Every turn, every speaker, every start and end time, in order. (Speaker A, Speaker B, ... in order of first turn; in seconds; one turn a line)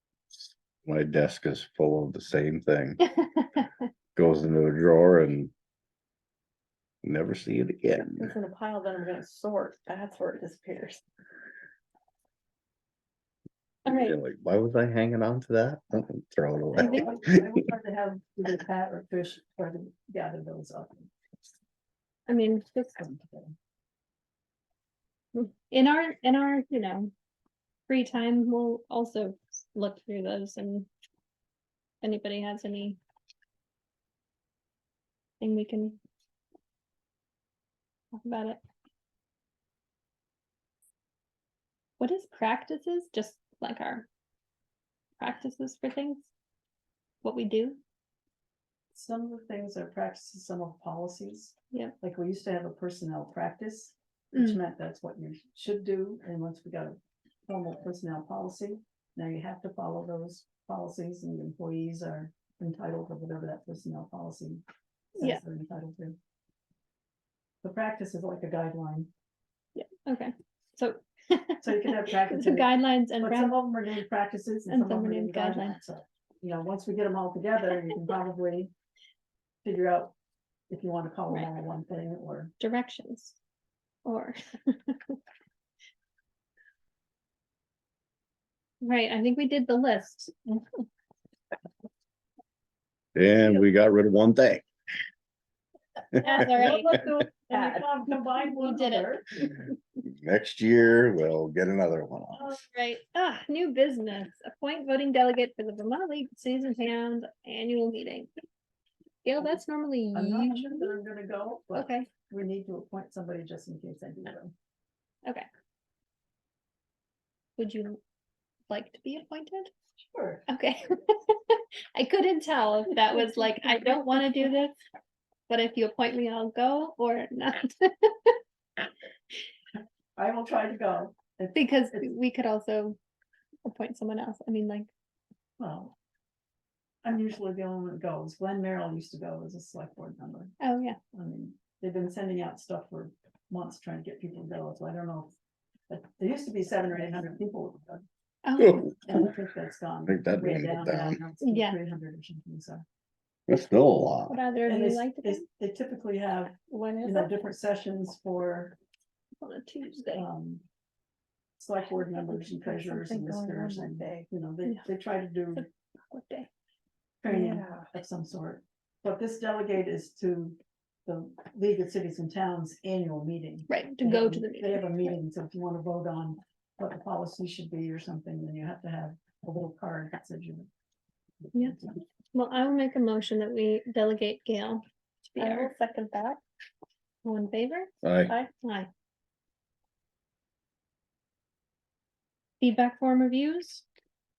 Speaker A: 0.8-3.0
Speaker A: 4.2-5.5
Speaker A: 7.0-8.3
Speaker B: 8.2-11.0
Speaker C: 13.9-14.2
Speaker A: 13.9-17.5
Speaker D: 16.8-21.1
Speaker C: 16.8-17.1
Speaker C: 22.3-23.0
Speaker D: 23.0-23.5
Speaker C: 25.3-27.1
Speaker C: 27.9-30.9
Speaker C: 32.0-33.0
Speaker C: 35.4-36.0
Speaker C: 38.1-38.6
Speaker C: 42.0-44.1
Speaker C: 45.2-46.3
Speaker C: 47.2-47.8
Speaker D: 48.9-64.6
Speaker D: 65.2-66.2
Speaker D: 67.6-69.1
Speaker C: 69.8-73.6
Speaker D: 71.6-78.7
Speaker C: 74.7-75.8
Speaker D: 79.6-80.1
Speaker D: 80.7-82.5
Speaker C: 82.6-83.4
Speaker C: 84.0-85.2
Speaker C: 88.8-90.3
Speaker A: 93.2-94.7
Speaker C: 96.2-97.0
Speaker D: 96.2-99.3
Speaker B: 96.4-97.8
Speaker C: 98.6-99.2
Speaker A: 100.0-102.5
Speaker C: 102.4-108.3
Speaker C: 109.2-111.0
Speaker D: 110.2-114.5
Speaker C: 111.8-112.1
Speaker C: 117.6-118.0
Speaker C: 118.7-119.7
Speaker D: 120.1-120.4
Speaker C: 120.5-124.8
Speaker C: 125.5-128.4
Speaker D: 130.2-132.1
Speaker C: 131.5-133.0
Speaker C: 133.7-134.9
Speaker D: 135.6-135.9
Speaker D: 137.0-140.5
Speaker C: 140.6-141.0
Speaker D: 141.1-145.3
Speaker D: 145.9-148.0
Speaker C: 148.4-148.9
Speaker D: 148.9-152.8
Speaker A: 150.1-151.2
Speaker C: 151.4-151.8
Speaker A: 153.5-154.4
Speaker C: 154.3-155.4
Speaker D: 154.7-158.8
Speaker B: 156.7-157.3
Speaker C: 159.4-160.2
Speaker D: 160.1-160.6
Speaker D: 161.6-165.7
Speaker B: 162.3-164.3
Speaker C: 165.6-166.5
Speaker D: 167.2-180.7
Speaker B: 167.3-167.9
Speaker C: 173.7-175.2
Speaker D: 181.4-182.0
Speaker C: 182.3-185.7
Speaker B: 185.4-186.4
Speaker C: 187.2-187.9
Speaker A: 188.0-188.3
Speaker C: 188.6-188.9
Speaker C: 192.6-193.8